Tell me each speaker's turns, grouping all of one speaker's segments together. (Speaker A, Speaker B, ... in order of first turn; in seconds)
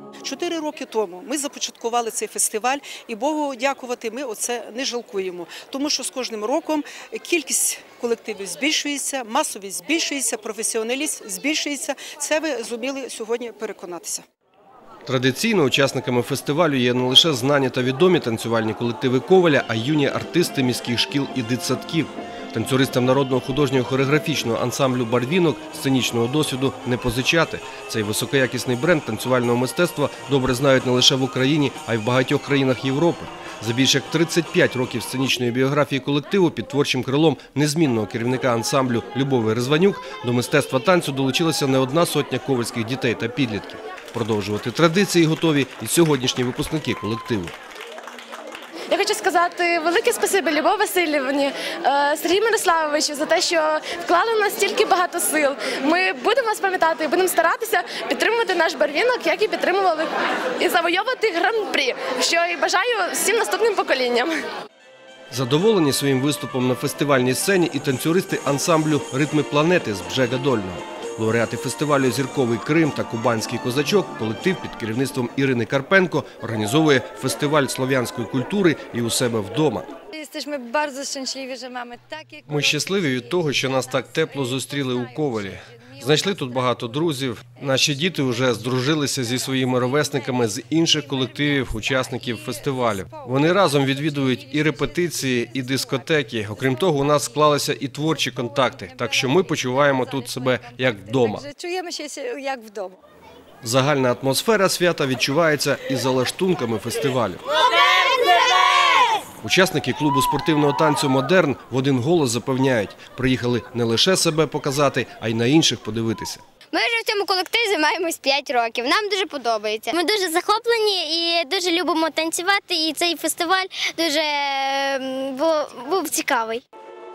Speaker A: 0.2-14.2
Speaker B: 15.1-47.5, 65.3-79.9, 82.5-101.5, 103.6-107.4, 109.4-116.4
Speaker C: 48.9-64.3
Speaker D: 80.2-87.1, 87.8-88.4, 89.0-103.0
Speaker E: 108.0-109.0, 116.7-126.6